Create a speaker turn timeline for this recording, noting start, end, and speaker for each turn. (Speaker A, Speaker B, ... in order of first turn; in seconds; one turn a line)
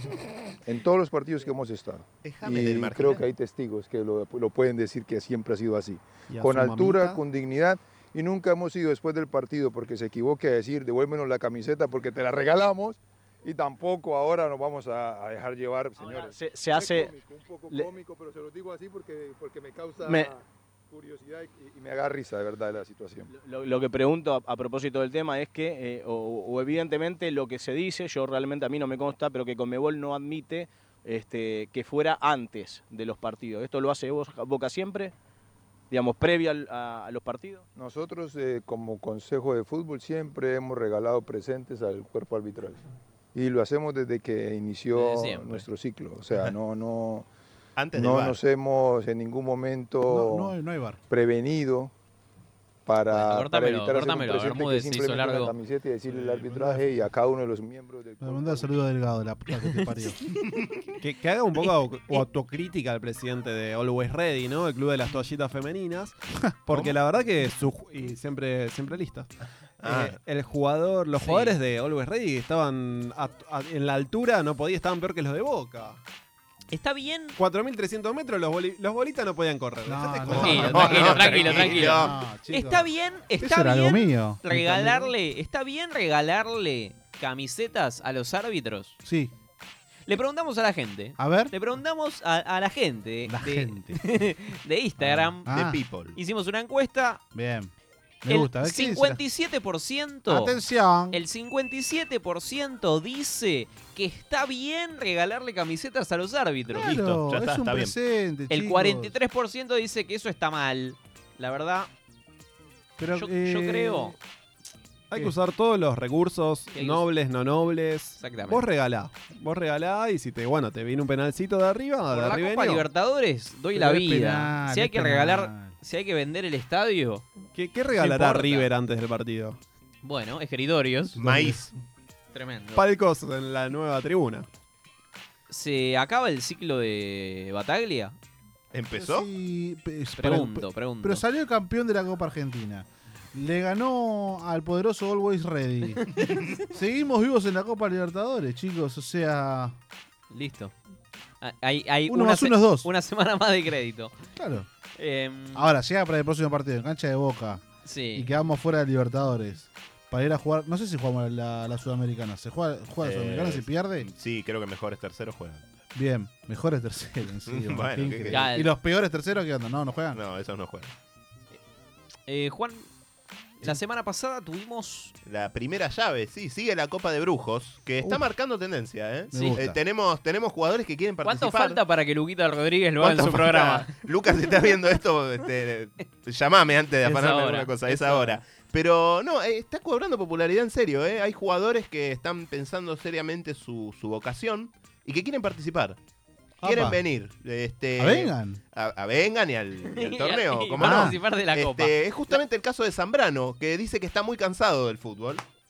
Speaker A: 0.6-23.3
Speaker B: 2.2-3.2
Speaker C: 6.3-7.2
Speaker D: 16.1-17.1
Speaker D: 23.3-35.1
Speaker D: 35.9-37.6
Speaker A: 37.7-42.8
Speaker A: 43.3-47.2
Speaker E: 44.9-45.6
Speaker B: 47.8-48.4
Speaker A: 47.9-50.5
Speaker F: 50.0-51.0
Speaker A: 51.1-51.9
Speaker A: 52.9-58.8
Speaker E: 53.1-55.5
Speaker F: 56.1-56.9
Speaker F: 58.2-60.2
Speaker C: 61.0-69.3
Speaker E: 61.6-62.2
Speaker B: 69.8-70.2
Speaker C: 69.8-76.0
Speaker E: 71.2-71.5
Speaker E: 76.7-77.3
Speaker C: 77.4-81.9
Speaker F: 79.8-85.1
Speaker E: 80.4-89.0
Speaker B: 80.4-82.2
Speaker F: 89.0-89.3
Speaker E: 90.1-95.5
Speaker F: 91.2-91.5
Speaker F: 93.3-94.0
Speaker F: 95.0-95.8
Speaker B: 95.5-96.2
Speaker E: 96.1-97.2
Speaker F: 97.3-97.7
Speaker F: 98.2-99.2
Speaker E: 98.3-100.6
Speaker F: 100.3-101.2
Speaker E: 101.1-106.9
Speaker F: 106.7-109.2
Speaker B: 106.8-107.9
Speaker E: 108.5-111.9
Speaker F: 113.0-114.2
Speaker E: 113.1-114.1
Speaker C: 115.1-122.8
Speaker E: 116.7-117.0
Speaker E: 118.2-118.7
Speaker E: 122.1-127.3
Speaker F: 123.7-125.7
Speaker C: 127.5-129.6
Speaker E: 128.0-128.7
Speaker E: 130.0-131.2
Speaker F: 131.1-131.7
Speaker B: 131.2-131.7
Speaker E: 132.3-132.8
Speaker C: 132.7-134.4
Speaker E: 135.5-138.2
Speaker B: 138.7-139.3
Speaker F: 138.9-146.1
Speaker E: 140.2-141.2
Speaker E: 146.1-146.5
Speaker F: 146.6-149.8
Speaker E: 150.3-150.7
Speaker E: 151.4-154.2
Speaker F: 152.1-152.9
Speaker F: 154.3-154.7
Speaker E: 155.0-155.7
Speaker F: 155.5-164.1
Speaker E: 157.8-158.3
Speaker B: 163.0-165.6
Speaker F: 165.9-170.2
Speaker B: 167.5-168.4
Speaker E: 168.3-168.7
Speaker B: 170.1-170.9
Speaker E: 172.3-172.9
Speaker E: 173.6-175.1
Speaker B: 175.2-181.8
Speaker F: 179.3-179.8
Speaker E: 181.2-183.9
Speaker B: 183.0-196.0
Speaker E: 187.0-188.4
Speaker F: 196.6-197.0
Speaker B: 196.6-205.4
Speaker F: 198.0-198.6
Speaker E: 199.9-202.3
Speaker F: 200.8-201.2